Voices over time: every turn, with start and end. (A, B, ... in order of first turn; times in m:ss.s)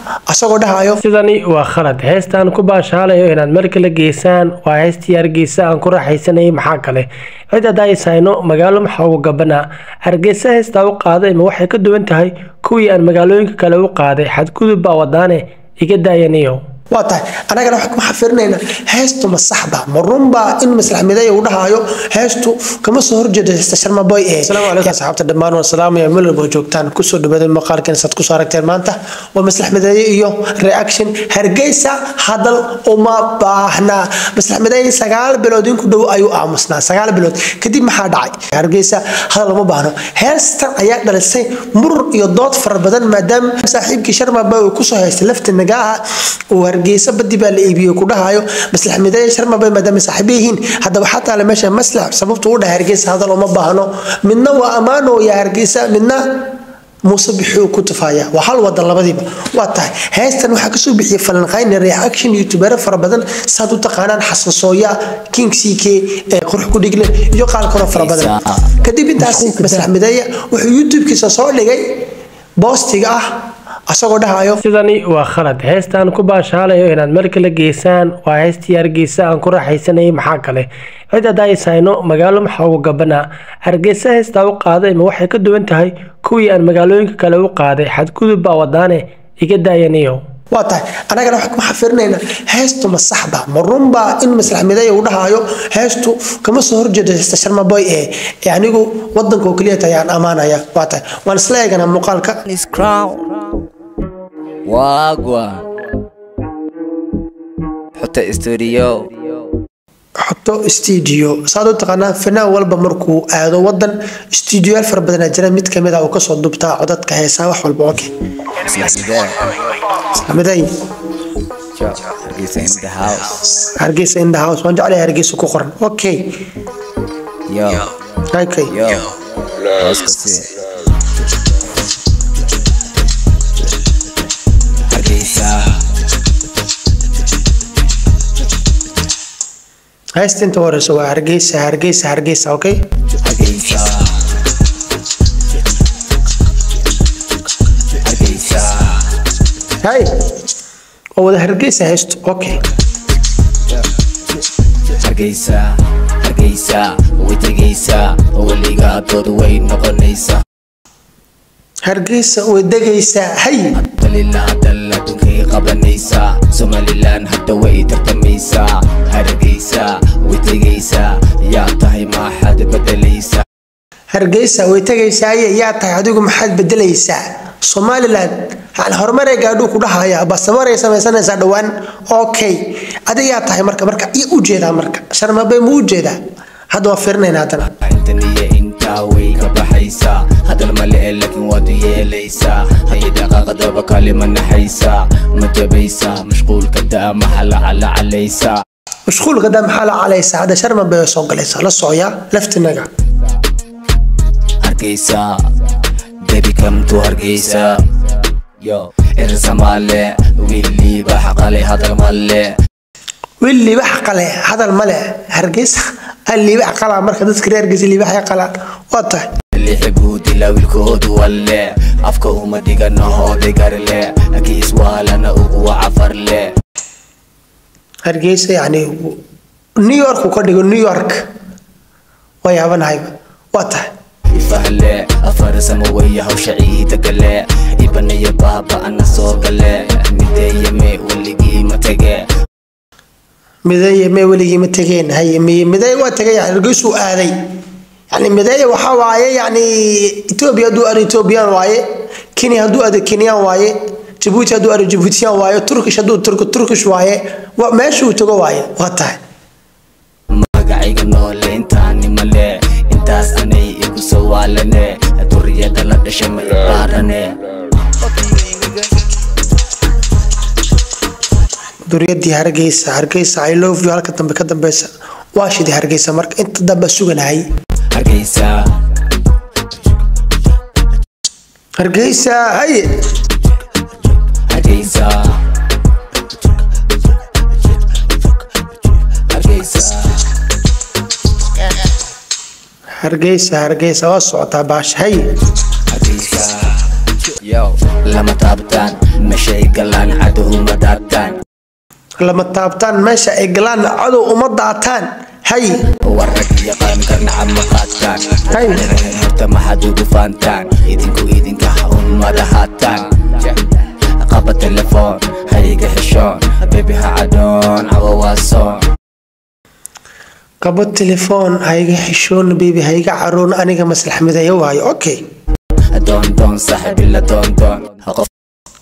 0:00.3-0:01.0 A
0:01.0-0:16.6 B
0:16.9-0:56.2 A
0:57.1-1:11.8 A
1:07.9-1:08.6 C
1:12.6-1:13.2 A
1:13.9-1:14.6 A
1:14.6-1:30.2 B
1:30.5-1:42.4 A
1:42.4-1:43.5 C
1:44.6-1:45.7 C
1:48.0-1:49.5 C
1:50.2-1:58.1 A
1:58.6-1:59.6 C
2:00.0-2:00.7 A
2:01.7-2:03.5 C
2:03.6-2:06.3 A
2:07.5-2:07.9 C
2:08.3-2:08.7 A
2:08.7-2:10.6 C
2:14.9-2:15.8 C
2:20.2-2:22.8 A
2:23.1-2:24.3 C
2:27.9-2:29.1 C
2:29.8-2:30.2 A
2:31.2-2:32.6 A
2:34.9-2:40.4 C
2:41.8-2:43.8 A
2:43.8-2:53.4 C
2:54.1-3:06.2 A
3:06.7-3:07.7 A
3:07.8-3:18.6 C
3:19.1-3:22.9 A
3:24.6-3:25.5 C
3:26.2-3:28.1 C
3:28.6-3:32.5 C
3:33.4-3:39.3 A
3:39.5-3:46.5 C
3:48.0-3:49.2 A
3:49.8-3:51.2 A
3:52.4-3:53.9 A
3:54.3-4:02.3 C
4:03.6-4:07.3 A
4:08.1-4:11.8 A
4:12.3-4:19.2 A
4:20.3-4:27.4 C
4:28.3-4:28.6 C
4:31.9-4:37.4 A
4:37.9-4:38.6 C
4:41.8-4:43.1 A
4:44.3-4:45.4 C
4:49.1-4:50.2 C
4:53.0-4:55.2 A
4:55.8-4:56.8 C
4:57.4-5:01.4 C
5:02.2-5:05.8 A
5:06.0-5:13.6 C
5:08.5-5:08.9 A
5:14.2-5:18.9 C
5:20.6-5:25.2 A
5:25.9-5:28.3 C